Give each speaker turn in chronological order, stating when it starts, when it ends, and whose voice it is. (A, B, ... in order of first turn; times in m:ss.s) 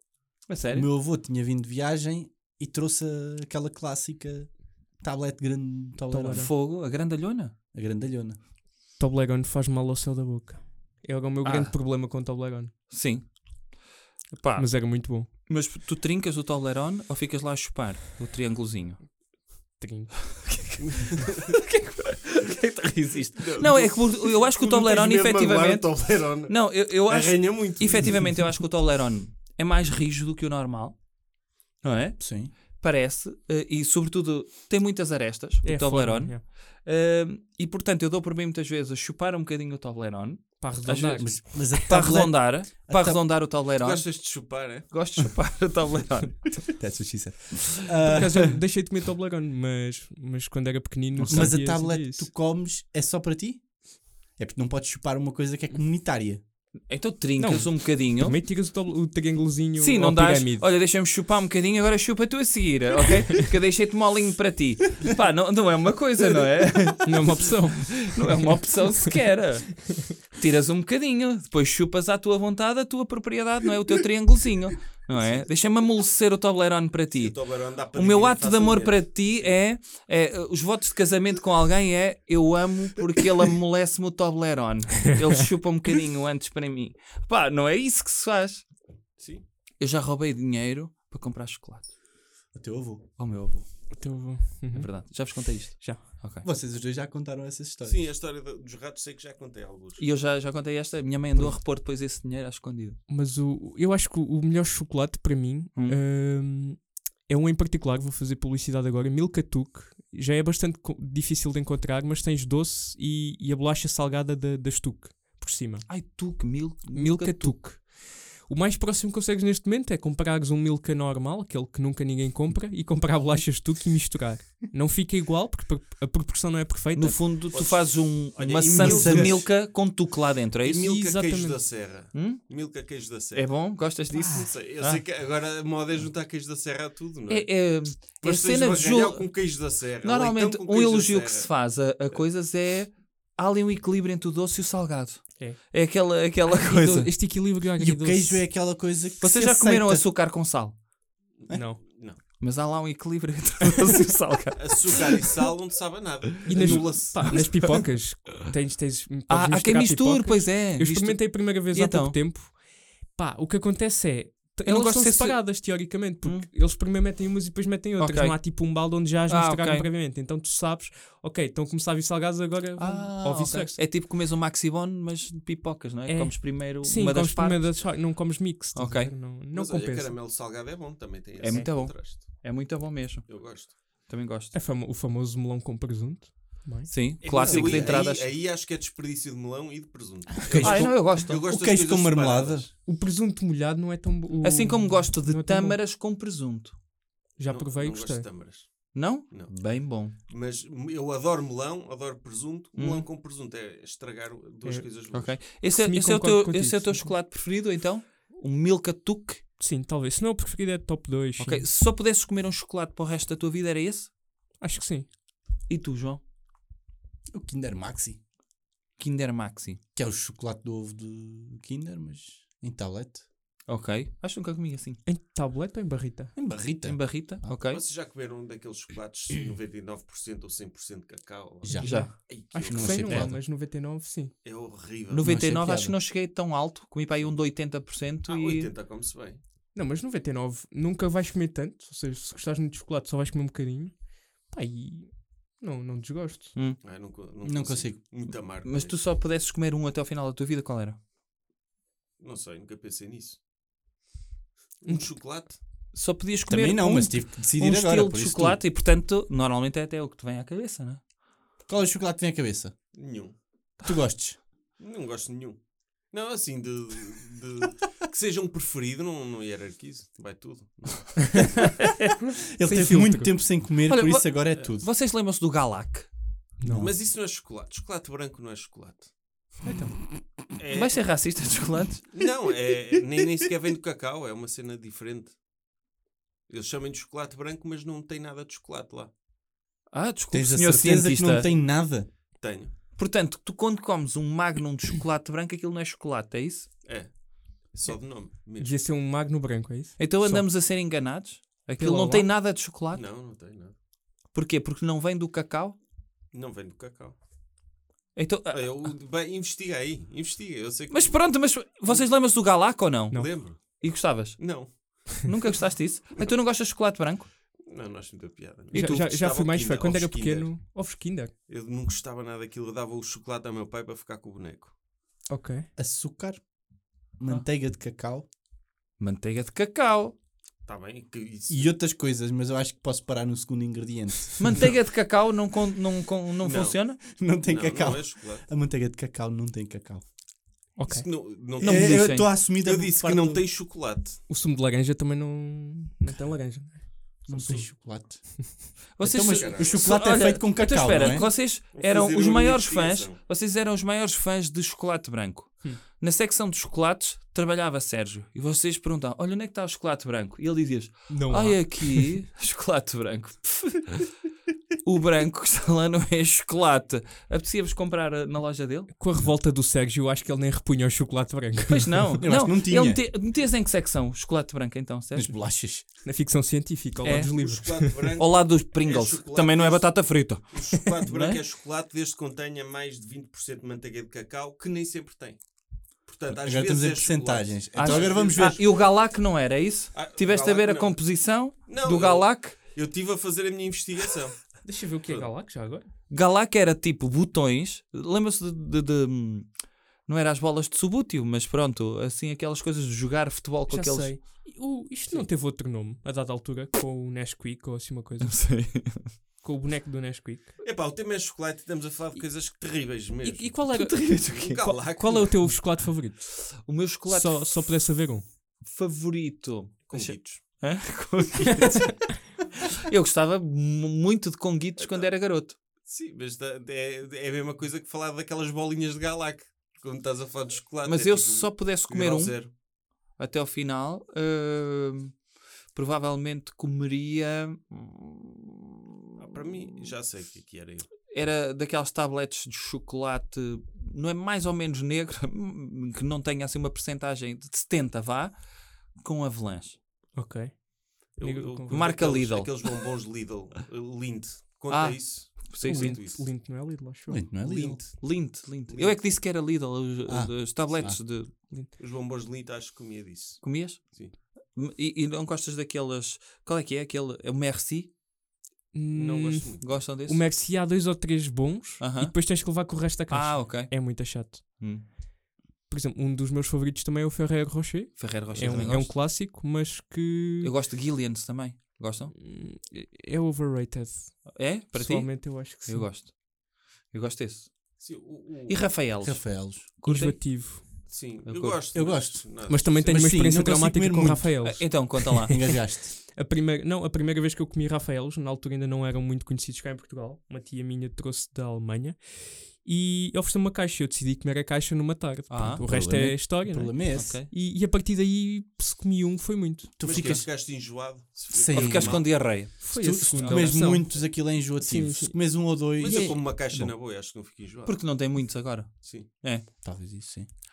0:00.5-0:00.9 A
0:00.7-0:06.5 B
0:06.1-0:06.5 C
0:06.3-0:07.5 A
0:07.7-0:08.4 B
0:09.0-0:12.7 C
0:11.4-0:11.7 A
0:12.9-0:13.8 A
0:14.3-0:19.1 A
0:14.6-0:15.3 C
0:19.8-0:20.4 C
0:20.5-0:31.0 A
0:23.4-0:28.5 D
0:31.8-0:44.2 A
0:32.2-0:32.5 B
0:35.6-0:36.4 C
0:40.6-0:41.7 C
0:41.2-0:43.3 B
0:43.8-0:44.9 D
0:44.9-0:46.6 A
0:46.7-0:48.6 B
0:48.0-0:52.3 C
0:51.2-0:53.7 B
0:54.4-0:56.4 B
0:56.9-0:58.4 A
0:57.4-1:00.7 C
0:59.8-1:28.6 A
1:07.0-1:08.6 C
1:15.2-1:15.4 D
1:17.2-1:19.5 D
1:29.2-1:29.4 D
1:29.8-1:31.9 A
1:32.5-1:33.0 B
1:33.2-1:33.7 A
1:33.9-1:36.1 C
1:34.7-1:36.4 A
1:36.4-1:38.1 B
1:37.8-1:40.0 D
1:40.0-1:43.0 A
1:43.1-1:56.0 C
1:55.9-1:57.6 A
1:56.9-2:07.2 C
2:06.9-2:10.9 A
2:07.5-2:09.6 D
2:08.7-2:09.4 B
2:10.6-2:17.6 D
2:10.8-2:11.6 C
2:12.1-2:12.4 A
2:13.3-2:15.0 A
2:17.3-2:27.1 A
2:18.2-2:22.2 D
2:26.4-2:28.4 C
2:27.8-2:30.1 B
2:29.2-2:30.8 A
2:31.4-2:32.2 D
2:31.5-2:31.8 C
2:32.4-2:35.4 A
2:34.6-2:37.8 D
2:36.4-2:53.9 C
2:36.4-2:37.6 A
2:39.3-2:42.2 A
2:44.6-2:46.5 A
2:48.0-2:49.9 A
2:52.8-2:57.6 A
2:56.0-3:00.2 C
2:58.7-2:59.1 A
2:59.5-3:02.4 D
3:01.4-3:04.5 A
3:03.2-3:03.8 D
3:04.5-3:06.9 C
3:06.9-3:08.4 A
3:07.2-3:12.7 D
3:07.3-3:08.0 B
3:10.4-3:12.7 B
3:10.6-3:11.4 A
3:12.8-3:15.8 C
3:14.4-3:16.8 A
3:17.4-3:18.3 C
3:17.5-3:19.5 D
3:18.9-3:20.1 A
3:20.3-3:25.4 D
3:22.8-3:23.1 A
3:25.1-3:29.4 A
3:25.6-3:27.1 C
3:29.6-3:31.7 C
3:31.4-3:34.1 A
3:34.6-3:35.1 C
3:35.7-3:36.2 A
3:37.3-3:38.2 B
3:39.0-3:39.8 A
3:40.0-3:43.2 B
3:43.7-3:45.0 A
3:45.0-3:46.3 C
3:46.3-3:47.5 B
3:46.8-3:47.8 A
3:47.6-3:53.2 D
3:51.6-3:53.4 B
3:51.7-3:54.3 C
3:51.8-3:52.1 A
3:53.0-3:53.3 A
3:54.4-3:55.3 D
3:55.1-3:58.7 A
3:55.2-3:56.0 B
3:58.2-3:59.4 D
3:59.7-4:06.5 C
4:06.8-4:09.0 D
4:07.4-4:08.0 B
4:08.3-4:11.0 A
4:12.2-4:13.4 D
4:14.8-4:15.6 D
4:15.9-4:21.0 A
4:16.5-4:18.6 B
4:21.7-4:22.7 B
4:22.9-4:23.4 D
4:23.8-4:24.4 B
4:24.8-4:25.6 D
4:26.1-4:31.6 D
4:31.5-4:32.0 A
4:32.6-4:34.9 B
4:32.6-4:33.4 C
4:33.8-4:36.1 A
4:36.6-4:36.9 C
4:36.6-4:36.9 B
4:36.7-4:39.1 D
4:39.6-4:40.0 C
4:40.6-4:41.0 D
4:40.7-4:42.0 A
4:42.1-4:45.4 D
4:46.5-4:49.1 D
4:49.9-4:51.5 A
4:50.3-4:52.1 B
4:52.4-4:52.7 D
4:53.0-4:56.7 A
4:56.8-4:57.1 D
4:57.6-4:58.8 D
4:58.6-5:00.0 C
5:00.0-5:03.1 A
5:01.8-5:02.3 C
5:02.9-5:03.7 D
5:04.3-5:05.8 A
5:06.3-5:07.2 D
5:08.2-5:08.9 A
5:08.5-5:11.4 D
5:10.9-5:17.3 A
5:13.1-5:13.6 D
5:14.4-5:15.0 D
5:17.6-5:20.5 D
5:18.7-5:19.2 A
5:18.7-5:21.3 C
5:21.5-5:24.7 D
5:25.3-5:25.7 C
5:25.8-5:26.4 B
5:27.2-5:28.2 B
5:29.0-5:30.2 A
5:30.6-5:31.7 D
5:31.5-5:34.7 B
5:34.4-5:37.0 A
5:36.4-5:36.8 D
5:37.0-5:40.0 B
5:37.4-5:38.5 D
5:40.8-5:41.1 C
5:40.8-5:44.2 D
5:41.6-5:42.3 A
5:41.6-5:43.5 B
5:44.3-5:48.5 C
5:47.3-5:51.3 B
5:48.9-6:04.1 A
5:49.3-5:50.0 D
5:50.9-5:53.2 D
6:01.1-6:02.1 C
6:04.8-6:08.9 A
6:08.9-6:12.2 C
6:11.7-6:15.3 A
6:12.2-6:13.0 B
6:15.1-6:15.8 B
6:16.0-6:18.0 C
6:17.0-6:25.4 D
6:17.0-6:17.3 A
6:18.0-6:21.4 A
6:26.0-6:28.7 D
6:26.3-6:28.6 B
6:27.7-6:32.6 A
6:29.9-6:35.3 D
6:34.6-6:35.9 C
6:36.1-6:39.5 A
6:40.0-6:44.5 A
6:43.7-6:50.6 C
6:48.2-6:49.2 A
6:50.6-6:55.6 D
6:52.2-6:58.3 C
6:53.7-6:54.6 A
6:56.6-6:57.6 A
6:58.6-7:02.1 A
6:59.8-7:00.4 D
7:02.8-7:05.6 A
7:04.8-7:05.1 D
7:05.9-7:12.5 D
7:10.8-7:12.5 A
7:13.2-7:15.2 A
7:15.7-7:19.9 A
7:19.2-7:20.9 D
7:21.1-7:28.4 A
7:28.9-7:29.8 A
7:30.1-7:31.8 C
7:31.2-7:36.3 D
7:31.7-7:32.7 A
7:34.7-7:36.0 A
7:35.6-7:37.2 C
7:37.1-7:37.8 B
7:37.4-7:39.0 D
7:38.0-7:41.3 A
7:40.0-7:41.0 B
7:41.8-7:44.1 D
7:43.4-7:47.9 A
7:48.7-7:54.9 C
7:48.9-7:49.8 D
7:49.6-7:50.2 A
7:51.8-7:52.3 A
7:53.1-7:54.9 A
7:55.6-8:00.5 C
7:58.0-7:59.0 A
8:00.4-8:02.1 A
8:02.1-8:05.9 C
8:04.3-8:06.2 A
8:06.8-8:07.9 A
8:07.8-8:08.8 D
8:08.5-8:10.6 A
8:09.0-8:09.7 B
8:09.8-8:10.7 C
8:10.6-8:13.0 D
8:11.2-8:11.9 A
8:11.7-8:16.0 B
8:12.5-8:29.8 C
8:14.4-8:15.4 A
8:25.3-8:25.6 A
8:25.6-8:27.2 B
8:26.9-8:27.3 A
8:29.8-8:30.4 B
8:29.8-8:32.3 D
8:29.9-8:30.2 A
8:31.3-8:36.7 B
8:31.5-8:33.7 A
8:32.6-8:36.2 C
8:35.8-8:37.8 D
8:37.6-8:39.4 A
8:38.8-8:39.1 D
8:39.6-8:40.3 B